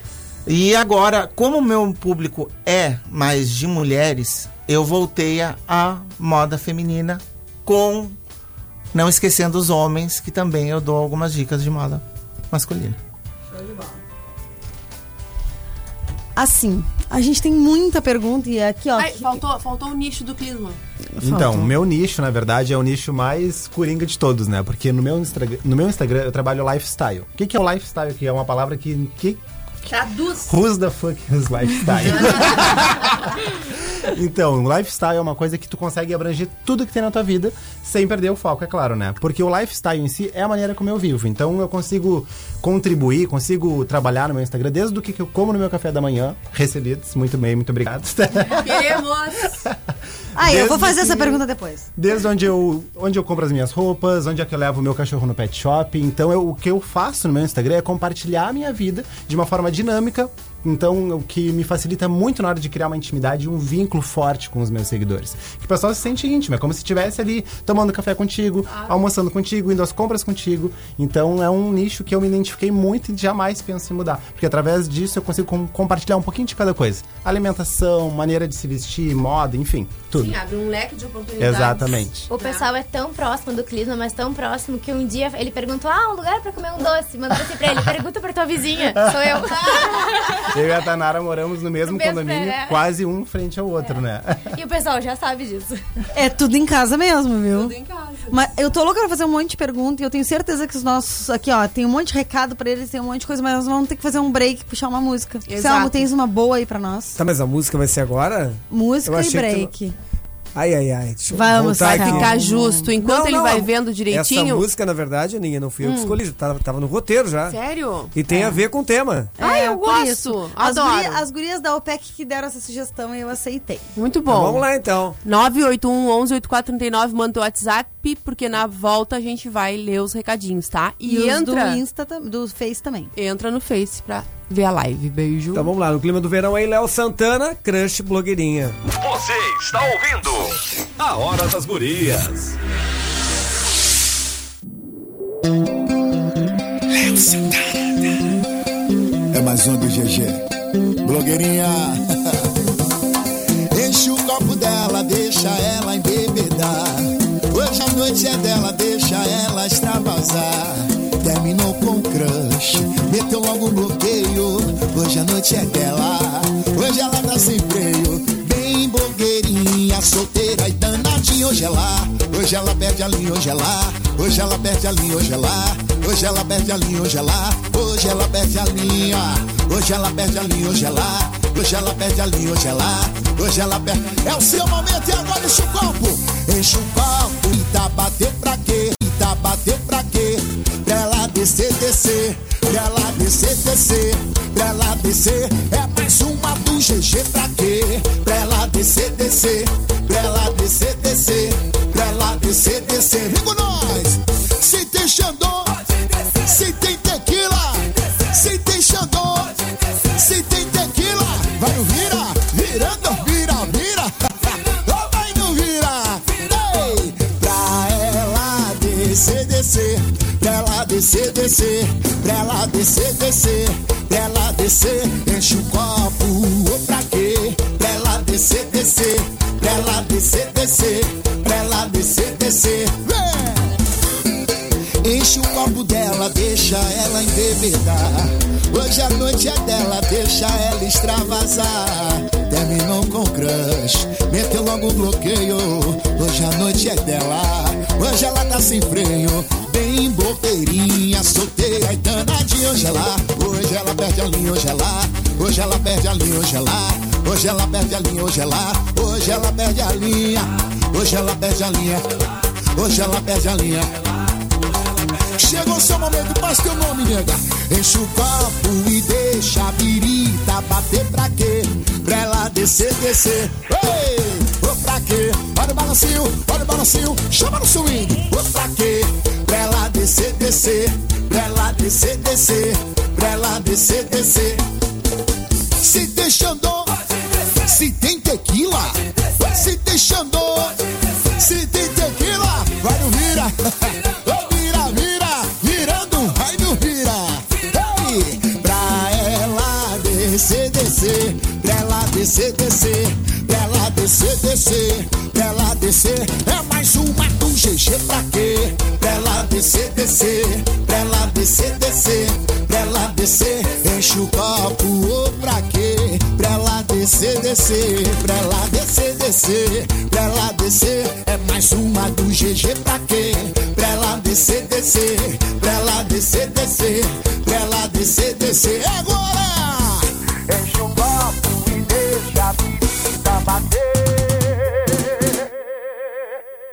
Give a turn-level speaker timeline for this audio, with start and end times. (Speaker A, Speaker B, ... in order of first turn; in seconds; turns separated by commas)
Speaker A: 0.5-8.2, Speaker A: 8.9-13.0, Speaker B: 13.6-13.9, Speaker B: 16.4-19.4, Speaker C: 19.0-20.8, Speaker B: 21.2-21.7, Speaker D: 21.2-29.4, Speaker C: 29.8-30.5, Speaker D: 30.5-33.4, Speaker C: 31.9-33.1, Speaker D: 34.0-48.9, Speaker C: 48.5-49.6, Speaker B: 50.4-51.9, Speaker D: 50.4-51.4, Speaker D: 52.0-80.4, Speaker C: 68.7-69.0, Speaker C: 80.1-82.6, Speaker D: 81.4-82.3, Speaker E: 82.3-90.5, Speaker D: 88.9-89.4, Speaker C: 89.5-90.4, Speaker D: 90.5-94.5, Speaker E: 91.8-92.9, Speaker E: 93.8-95.8, Speaker B: 96.1-97.7, Speaker C: 97.5-98.4, Speaker B: 98.3-107.2, Speaker C: 105.5-106.1, Speaker F: 107.2-109.7, Speaker B: 108.7-109.9, Speaker F: 110.5-112.4, Speaker B: 111.3-112.9, Speaker C: 111.9-114.6, Speaker F: 113.0-117.5, Speaker C: 115.8-116.2, Speaker C: 117.5-118.1, Speaker F: 118.1-119.3, Speaker B: 118.3-118.6, Speaker B: 119.4-123.8, Speaker C: 119.4-121.2, Speaker C: 123.9-124.7, Speaker F: 124.3-125.2, Speaker C: 125.2-131.8, Speaker B: 131.1-133.1, Speaker C: 133.1-135.7, Speaker F: 135.5-138.8, Speaker G: 138.9-142.5, Speaker H: 146.9-148.1, Speaker H: 149.3-150.4, Speaker H: 151.0-152.0, Speaker H: 153.7-205.8, Speaker H: 206.3-233.6, Speaker H: 235.0-264.0, Speaker H: 265.4-284.6, Speaker H: 285.8-286.9, Speaker H: 287.6-290.8, Speaker H: 291.4-334.1